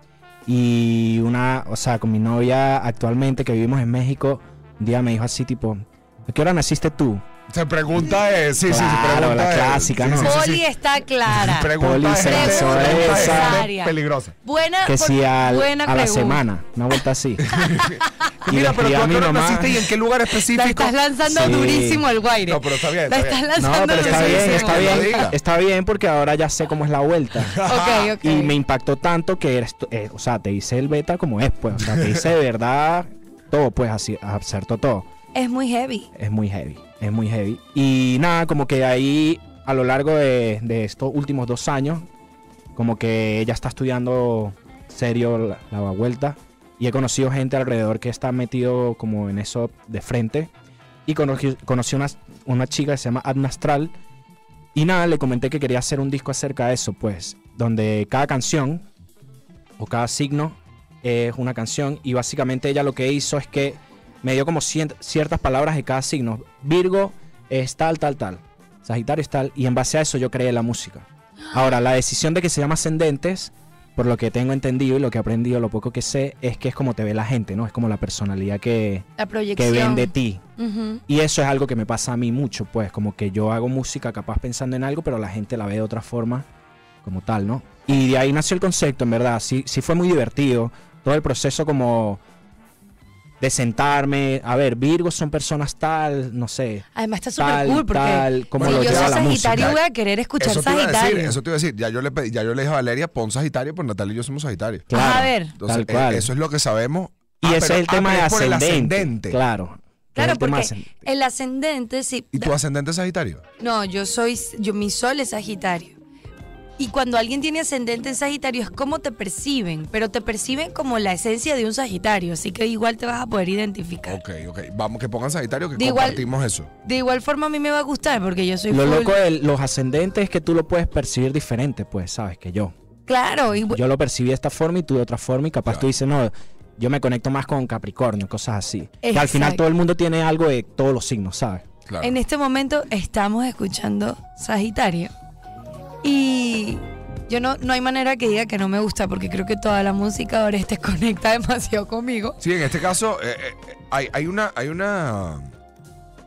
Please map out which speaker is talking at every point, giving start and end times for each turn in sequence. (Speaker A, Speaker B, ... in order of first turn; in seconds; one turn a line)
Speaker A: 0.5-7.2
Speaker B: 7.5-10.6
Speaker A: 8.7-10.3
Speaker C: 10.2-16.4
Speaker B: 11.3-14.3
Speaker A: 11.8-13.6
Speaker A: 14.8-17.5
Speaker B: 17.4-21.8
Speaker C: 17.6-18.3
Speaker A: 18.4-19.8
Speaker C: 20.3-25.3
Speaker A: 21.3-22.0
Speaker B: 22.4-25.4
Speaker A: 23.6-27.6
Speaker B: 27.4-28.1
Speaker C: 27.6-28.6
Speaker A: 28.2-35.1
Speaker B: 31.8-32.2
Speaker C: 35.3-36.1
Speaker A: 36.1-42.1
Speaker A: 42.8-50.5
Speaker A: 51.1-53.9
Speaker A: 54.7-58.9
Speaker A: 59.8-80.4
Speaker C: 79.2-81.0
Speaker A: 81.1-86.5
Speaker A: 87.0-92.2
Speaker A: 93.4-96.8
Speaker C: 97.0-101.4
Speaker A: 97.4-99.7
Speaker B: 98.6-99.8
Speaker B: 100.4-104.9
Speaker A: 104.9-106.3
Speaker C: 104.9-105.6
Speaker B: 105.5-109.4
Speaker A: 107.4-111.1
Speaker C: 110.2-112.5
Speaker B: 112.3-113.4
Speaker C: 113.6-116.0
Speaker C: 116.8-124.2
Speaker B: 124.1-126.7
Speaker C: 125.8-126.3
Speaker C: 126.8-129.2
Speaker A: 128.7-132.7
Speaker C: 133.1-133.8
Speaker A: 133.7-141.7
Speaker C: 139.0-139.6
Speaker B: 141.8-142.2
Speaker C: 142.0-145.1
Speaker C: 146.0-152.4
Speaker B: 152.4-155.5